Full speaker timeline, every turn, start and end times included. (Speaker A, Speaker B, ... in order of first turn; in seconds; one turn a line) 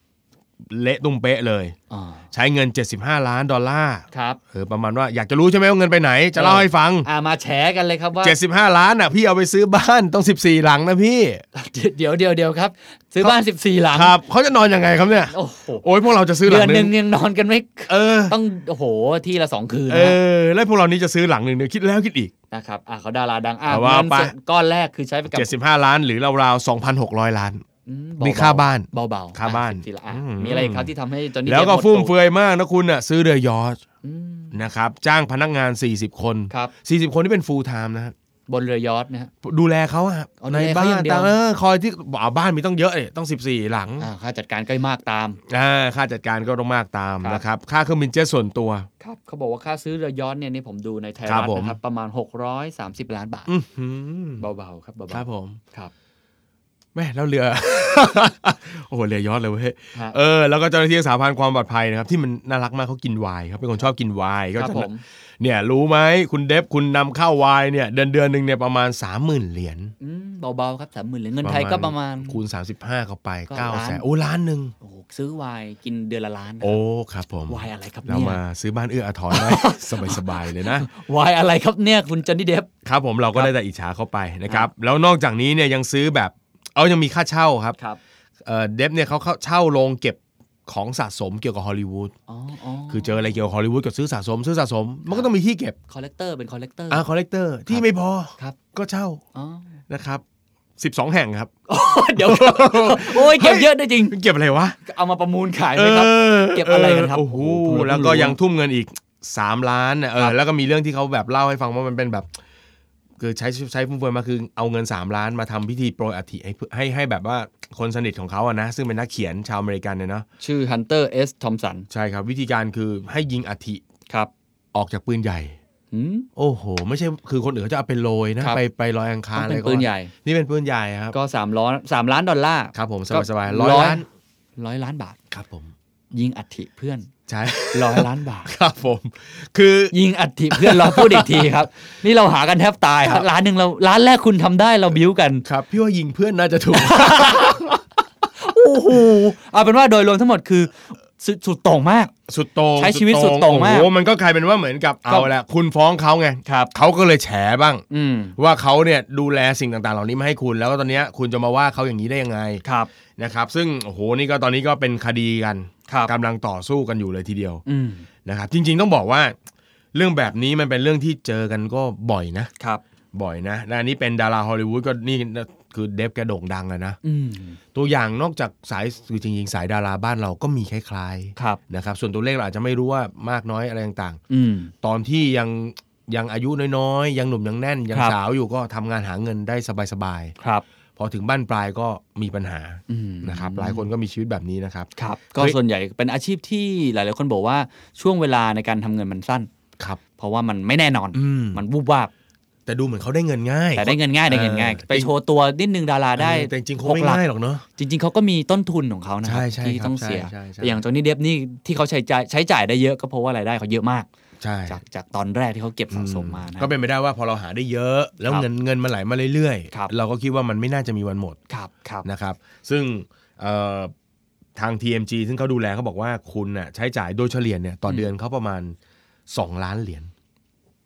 Speaker A: 0.6-1.8
Speaker B: 1.9-2.2
Speaker A: 2.3-7.1
Speaker B: 4.1-4.4
Speaker B: 6.3-8.3
Speaker A: 8.2-11.4
Speaker B: 11.5-14.2
Speaker A: 13.9-16.9
Speaker B: 15.3-15.8
Speaker B: 16.4-20.2
Speaker A: 17.9-18.4
Speaker A: 19.9-22.3
Speaker B: 22.5-25.5
Speaker A: 23.7-24.3
Speaker A: 25.3-27.6
Speaker B: 27.9-32.1
Speaker A: 28.2-30.9
Speaker A: 31.4-33.8
Speaker B: 34.0-34.6
Speaker A: 34.5-38.1
Speaker B: 38.5-39.3
Speaker A: 39.4-44.1
Speaker B: 40.4-41.4
Speaker B: 44.0-45.4
Speaker A: 45.5-48.9
Speaker B: 49.0-53.5
Speaker A: 51.2-51.8
Speaker A: 53.5-54.4
Speaker B: 54.4-55.9
Speaker A: 55.1-55.6
Speaker A: 56.9-69.9
Speaker B: 64.5-65.0
Speaker B: 70.0-72.4
Speaker A: 71.4-74.7
Speaker B: 73.5-74.0
Speaker B: 74.8-76.8
Speaker A: 76.6-80.9
Speaker B: 77.5-78.4
Speaker B: 79.3-82.7
Speaker A: 82.8-87.8
Speaker A: 88.4-92.1
Speaker B: 92.3-93.3
Speaker A: 92.9-95.8
Speaker B: 95.9-97.0
Speaker A: 96.9-99.2
Speaker B: 99.3-99.7
Speaker A: 99.9-100.2
Speaker A: 100.8-101.5
Speaker B: 101.7-104.2
Speaker A: 102.0-104.8
Speaker B: 104.8-108.4
Speaker A: 105.8-112.3
Speaker A: 113.2-120.2
Speaker B: 120.4-121.9
Speaker A: 121.9-123.8
Speaker A: 124.7-125.5
Speaker B: 125.9-126.3
Speaker A: 126.3-131.2
Speaker B: 129.3-130.1
Speaker B: 131.1-134.0
Speaker A: 132.7-134.0
Speaker B: 134.6-135.2
Speaker A: 135.3-135.7
Speaker B: 136.1-137.1
Speaker A: 137.3-139.9
Speaker B: 137.7-138.5
Speaker B: 139.9-145.4
Speaker A: 140.5-141.6
Speaker A: 145.4-147.8
Speaker B: 146.7-147.6
Speaker B: 148.4-152.1
Speaker A: 152.3-157.8
Speaker B: 152.8-153.9
Speaker B: 156.4-156.7
Speaker B: 157.9-158.3
Speaker A: 158.4-162.6
Speaker B: 162.6-162.9
Speaker A: 163.2-167.6
Speaker B: 167.7-168.1
Speaker A: 168.2-169.3
Speaker A: 169.9-172.5
Speaker A: 173.1-177.0
Speaker B: 177.0-177.6
Speaker A: 177.7-184.2
Speaker B: 184.3-184.7
Speaker A: 184.8-190.3
Speaker B: 190.4-190.6
Speaker A: 191.0-195.6
Speaker B: 192.9-193.9
Speaker B: 195.0-199.5
Speaker B: 200.2-202.1
Speaker A: 201.1-201.6
Speaker A: 202.7-205.1
Speaker B: 203.7-207.2
Speaker A: 206.2-207.6
Speaker B: 207.8-214.1
Speaker A: 209.2-210.8
Speaker A: 214.4-214.8
Speaker B: 214.7-216.7
Speaker A: 215.9-221.4
Speaker B: 221.5-222.1
Speaker A: 222.0-223.9
Speaker A: 224.6-228.8
Speaker A: 229.3-230.1